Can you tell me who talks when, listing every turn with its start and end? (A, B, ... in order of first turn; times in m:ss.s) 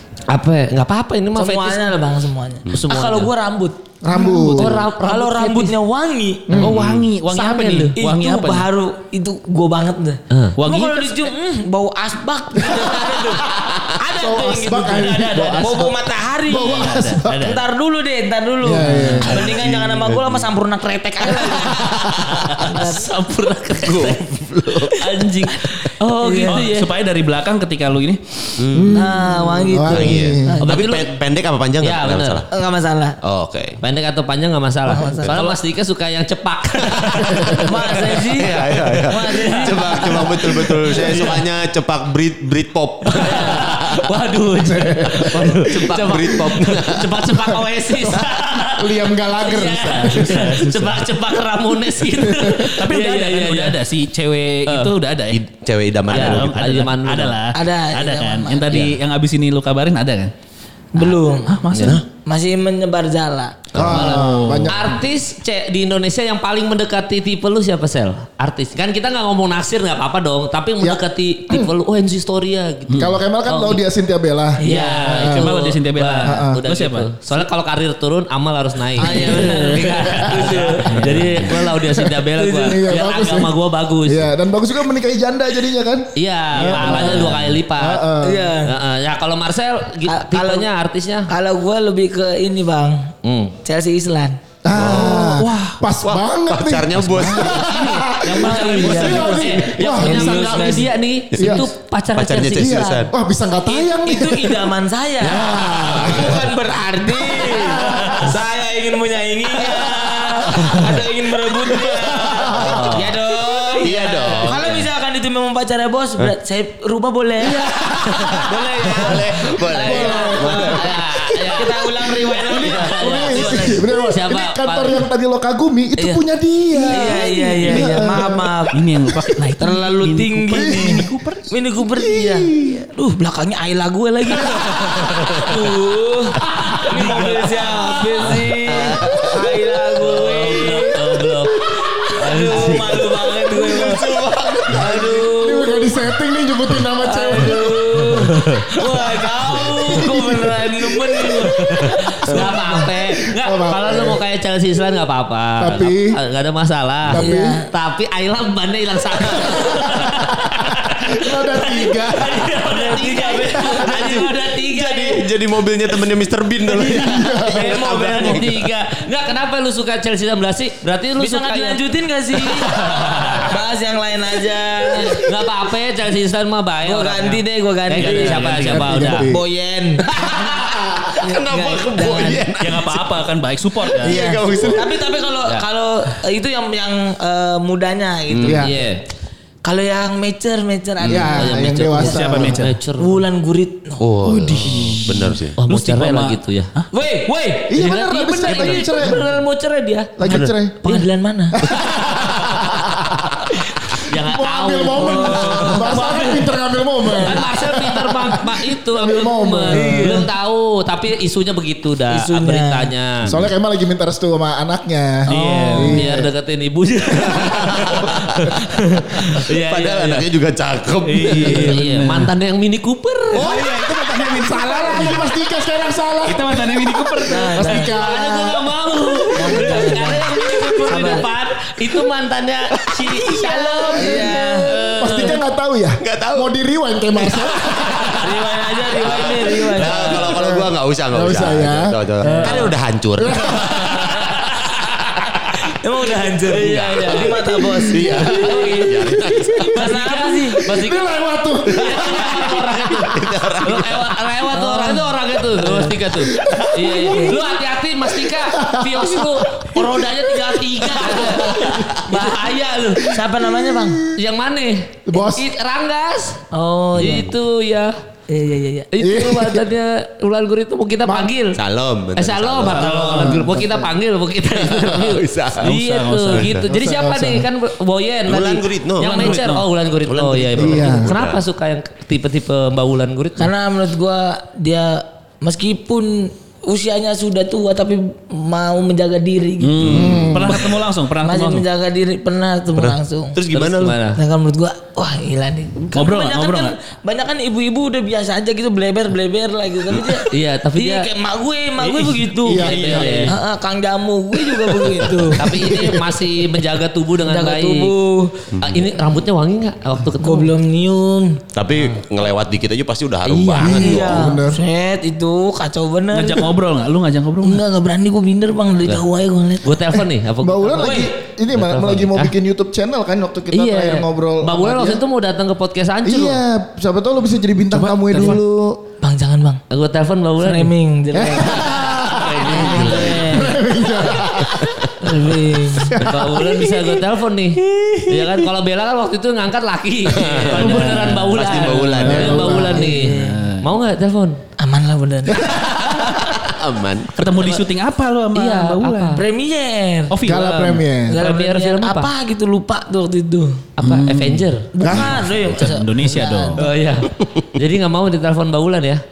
0:00.3-0:02.0 A
0:01.4-0:04.3 B
0:02.7-0:03.2 C
0:02.7-0:03.3 A
0:04.0-0:04.8 D
0:04.2-0:04.7 E
0:04.5-0:05.8 A
0:05.0-0:06.6 B
0:06.5-0:06.9 D
0:06.6-0:08.7 E
0:06.6-0:07.1 C
0:07.3-0:22.0 B
0:10.6-0:11.3 E
0:12.6-0:13.3 D
0:14.1-0:16.0 D
0:15.3-0:15.9 E
0:16.5-0:17.6 D
0:16.7-0:17.2 E
0:17.0-0:17.6 A
0:18.6-0:19.5 D
0:19.3-0:20.5 C
0:21.6-0:22.5 D
0:22.5-0:24.2 A
0:22.6-0:23.1 B
0:23.8-0:25.4 C
0:24.8-0:26.9 A
0:26.2-0:26.7 B
0:26.4-0:28.6 E
0:28.6-0:29.0 C
0:28.7-0:30.6 D
0:28.9-0:30.8 B
0:29.9-0:32.5 C
0:30.6-0:31.2 A
0:31.8-0:32.4 A
0:32.5-0:33.2 B
0:33.2-0:33.8 C
0:33.8-0:38.1 A
0:34.9-0:35.6 B
0:36.8-0:44.0 C
0:37.6-0:41.0 B
0:38.6-0:41.4 A
0:43.1-0:43.7 B
0:43.1-0:53.8 A
0:44.6-0:46.0 D
0:45.6-0:47.2 C
0:47.5-0:50.6 D
0:49.7-0:51.1 E
0:52.2-0:52.6 D
0:52.8-0:55.4 E
0:54.7-0:54.9 A
0:55.3-0:56.5 C
0:56.1-1:00.3 E
0:56.1-0:57.4 A
0:57.5-0:58.9 B
1:01.0-1:03.7 B
1:01.0-1:02.0 E
1:01.7-1:02.0 A
1:03.7-1:04.2 C
1:03.8-1:04.9 D
1:03.8-1:13.8 A
1:03.8-1:04.8 E
1:10.8-1:11.7 D
1:12.9-1:13.2 E
1:13.0-1:15.6 D
1:14.6-1:15.1 B
1:14.6-1:24.3 A
1:15.2-1:17.1 E
1:16.3-1:16.6 D
1:19.0-1:21.0 B
1:20.4-1:21.5 E
1:21.5-1:28.5 D
1:22.3-1:22.8 B
1:26.2-1:28.1 A
1:26.7-1:27.3 B
1:28.2-1:28.7 B
1:28.6-1:31.3 A
1:30.1-1:30.7 B
1:31.3-1:34.4 B
1:33.2-1:33.5 A
1:34.6-1:41.7 D
1:34.7-1:35.2 C
1:35.0-1:35.8 E
1:36.0-1:39.8 C
1:38.2-1:43.1 A
1:38.4-1:40.9 B
1:41.4-1:43.1 C
1:42.5-1:46.5 D
1:43.7-1:57.8 B
1:45.3-1:46.4 C
1:47.2-1:48.1 D
1:47.6-1:48.3 A
1:51.9-1:52.9 D
1:52.5-1:53.2 A
1:53.8-1:54.9 C
1:53.8-1:54.6 A
1:57.5-1:58.5 D
1:58.1-2:01.0 C
1:58.4-2:01.0 B
1:59.8-2:01.6 D
2:00.0-2:05.0 A
2:01.5-2:03.9 B
2:02.3-2:09.4 D
2:06.7-2:08.8 B
2:07.7-2:08.0 E
2:08.7-2:11.5 E
2:09.6-2:26.0 B
2:10.5-2:11.1 D
2:11.8-2:12.9 D
2:14.7-2:15.7 C
2:16.7-2:19.1 A
2:18.7-2:19.5 C
2:20.0-2:23.1 A
2:22.8-2:25.3 C
2:25.0-2:27.9 D
2:27.0-2:32.9 B
2:29.5-2:30.6 D
2:32.2-2:45.3 A
2:33.3-2:34.2 D
2:35.6-2:36.2 D
2:37.1-2:37.6 D
2:37.2-2:37.7 B
2:39.3-2:42.6 D
2:42.6-2:44.6 B
2:43.6-2:44.2 D
2:44.1-2:48.7 C
2:46.6-2:48.5 B
2:46.9-2:47.8 D
2:47.6-2:51.8 A
2:51.2-2:52.8 B
2:52.3-2:53.4 A
2:52.6-2:53.5 E
2:53.4-2:55.3 B
2:55.1-2:59.3 A
2:56.8-3:02.5 B
2:58.0-2:58.9 E
2:58.0-2:59.4 D
3:00.1-3:03.2 C
3:02.6-3:04.3 E
3:03.8-3:05.2 C
3:04.0-3:08.8 B
3:08.3-3:08.6 C
3:08.4-3:08.8 D
3:08.5-3:09.0 A
3:09.6-3:12.2 B
3:11.0-3:11.3 C
3:11.0-3:12.6 D
3:11.4-3:13.2 A
3:12.0-3:12.8 E
3:13.0-3:14.6 B
3:14.0-3:15.6 C
3:14.2-3:15.4 D
3:15.6-3:16.7 A
3:15.7-3:16.9 E
3:16.9-3:17.9 B
3:17.7-3:19.4 D
3:17.8-3:21.1 A
3:18.5-3:18.8 C
3:20.2-3:20.8 D
3:20.8-3:21.6 B
3:21.6-3:23.3 D
3:23.9-3:30.2 D
3:24.0-3:26.5 A
3:25.0-3:26.3 B
3:25.5-3:26.0 E
3:27.1-3:33.3 A
3:29.7-3:30.3 B
3:32.1-3:32.9 B
3:33.2-3:36.3 D
3:33.2-3:33.5 C
3:35.3-3:36.2 E
3:35.3-3:40.3 A
3:37.1-3:38.6 C
3:39.4-3:41.8 C
3:41.2-3:43.5 A
3:41.2-3:42.3 E
3:43.4-3:43.6 C
3:43.4-3:45.3 E
3:43.4-3:46.8 D
3:46.3-3:47.8 E
3:47.3-3:47.9 B
3:47.5-3:48.8 D
3:47.6-3:55.4 A
3:49.3-3:51.2 B
3:53.1-3:58.4 D
3:53.4-3:54.7 B
3:56.0-3:56.5 C
3:58.2-4:00.3 B
3:59.0-4:04.0 C
4:00.0-4:04.3 D
4:02.2-4:02.6 E
4:02.4-4:02.8 B
4:04.2-4:04.7 A
4:05.6-4:10.7 B
4:06.5-4:09.8 C
4:06.5-4:07.4 A
4:07.5-4:08.4 D
4:08.4-4:09.0 A
4:09.6-4:11.1 A
4:10.6-4:13.1 D
4:11.7-4:23.1 A
4:11.7-4:14.1 C
4:14.5-4:15.2 B
4:15.7-4:22.1 D
4:17.0-4:17.4 B
4:21.0-4:24.0 B
4:23.0-4:24.2 D
4:24.2-4:26.4 A
4:25.1-4:25.5 D
4:26.5-4:27.3 B
4:27.0-4:27.9 A
4:28.3-4:28.9 B
4:28.9-4:31.6 A
4:29.0-4:29.7 D
4:31.0-4:31.3 D
4:31.6-4:33.1 C
4:32.2-4:43.5 A
4:32.7-4:33.5 E
4:32.9-4:33.9 D
4:34.6-4:35.8 C
4:35.6-4:36.6 E
4:36.3-4:36.7 C
4:36.7-4:37.5 D
4:38.3-4:39.5 C
4:39.0-4:39.7 E
4:40.1-4:41.4 C
4:40.6-4:41.2 D
4:43.4-4:50.0 B
4:49.6-4:51.7 E
4:49.8-4:50.3 C
4:49.9-4:50.7 D
4:51.2-4:53.4 B
4:52.8-4:54.0 C
4:53.5-4:54.2 A
4:54.2-5:05.9 B
4:56.0-4:56.7 E
5:00.3-5:01.1 A
5:01.8-5:03.3 E
5:02.4-5:03.3 D
5:02.5-5:03.3 A
5:04.5-5:05.9 D
5:05.4-5:07.9 A
5:07.2-5:08.4 B
5:08.5-5:08.9 C
5:08.6-5:10.5 A
5:10.2-5:11.4 B
5:11.5-5:14.3 C
5:13.2-5:14.1 A
5:13.6-5:14.6 D
5:13.6-5:16.5 B
5:16.1-5:17.6 E
5:17.4-5:20.0 B
5:19.6-5:22.3 A
5:20.4-5:25.0 D
5:20.8-5:21.1 B
5:23.5-5:26.4 A
5:26.0-5:28.8 D
5:27.7-5:28.4 E
5:29.0-5:29.6 B
5:29.7-5:30.7 A
5:30.4-5:31.8 B
5:31.1-5:35.1 D
5:31.8-5:33.5 A
5:32.4-5:33.6 B
5:35.0-5:36.1 B
5:35.7-5:36.9 D
5:36.0-5:44.4 A
5:40.1-5:42.6 C
5:40.5-5:41.6 E
5:40.7-5:41.1 D
5:42.0-5:42.9 D
5:42.4-5:43.5 B
5:43.1-5:43.7 E
5:44.6-5:45.4 B
5:45.3-5:46.2 D
5:46.4-5:47.2 C
5:47.2-5:49.2 E
5:48.3-5:49.2 A
5:49.1-5:50.1 B
5:50.1-5:50.8 E
5:50.3-5:51.2 D
5:51.1-5:53.7 B
5:51.1-5:52.1 A
5:53.8-5:54.7 A
5:53.8-5:56.6 E
5:54.7-5:56.7 B
5:54.8-5:55.4 D
5:56.6-5:59.0 A